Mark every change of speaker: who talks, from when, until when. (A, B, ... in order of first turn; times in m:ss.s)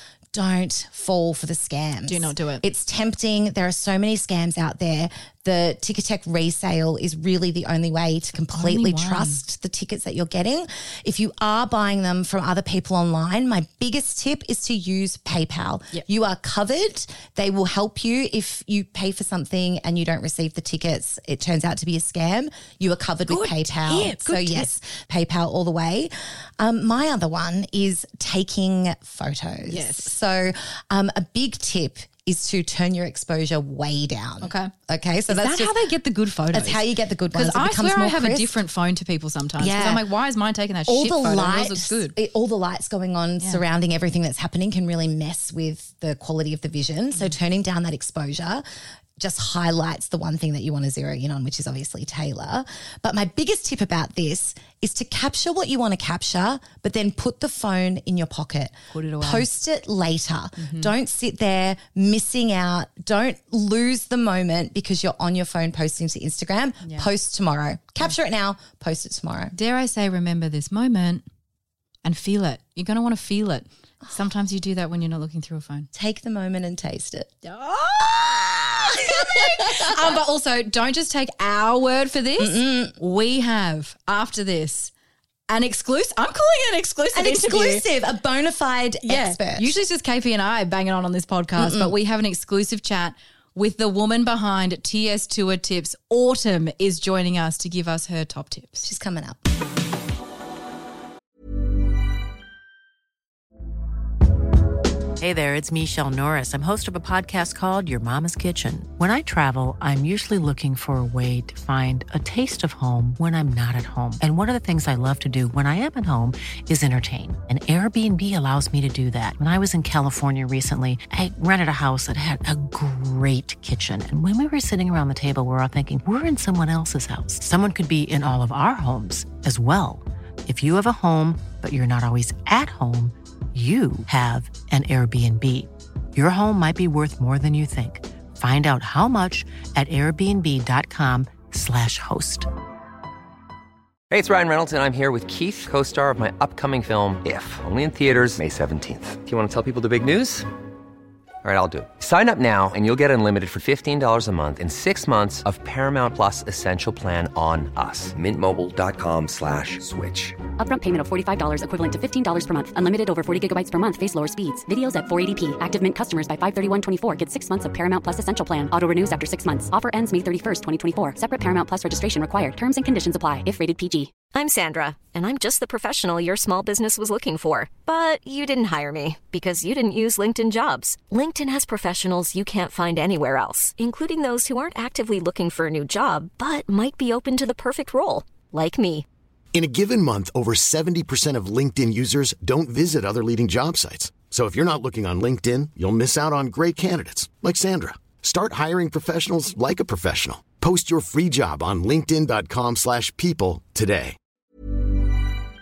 0:00.3-0:35.8 A
0:02.1-0:02.6 B
0:08.5-0:09.4 B
0:23.3-0:24.7 B
0:29.6-0:30.1 B
0:34.4-0:34.7 B
0:35.3-0:36.8 B
0:36.5-0:38.5 A
0:37.3-0:42.1 B
0:39.6-0:40.0 A
0:40.9-0:48.6 A
0:49.2-1:09.5 A
0:58.9-0:59.5 B
1:00.6-1:00.9 B
1:06.8-1:07.1 B
1:09.5-1:11.2 B
1:12.0-1:15.9 B
1:15.9-1:17.3 A
1:17.4-1:18.3 B
1:18.0-1:20.2 A
1:18.9-1:24.9 B
1:22.4-1:23.0 A
1:25.5-1:27.8 B
1:27.1-1:29.7 A
1:29.0-1:38.9 B
1:31.6-1:31.9 A
1:38.8-1:39.4 A
1:45.2-2:22.5 C
2:24.1-2:30.5 D
2:31.4-2:40.4 D
2:40.6-2:54.1 E
2:54.3-3:09.0 F
3:09.5-3:24.2 G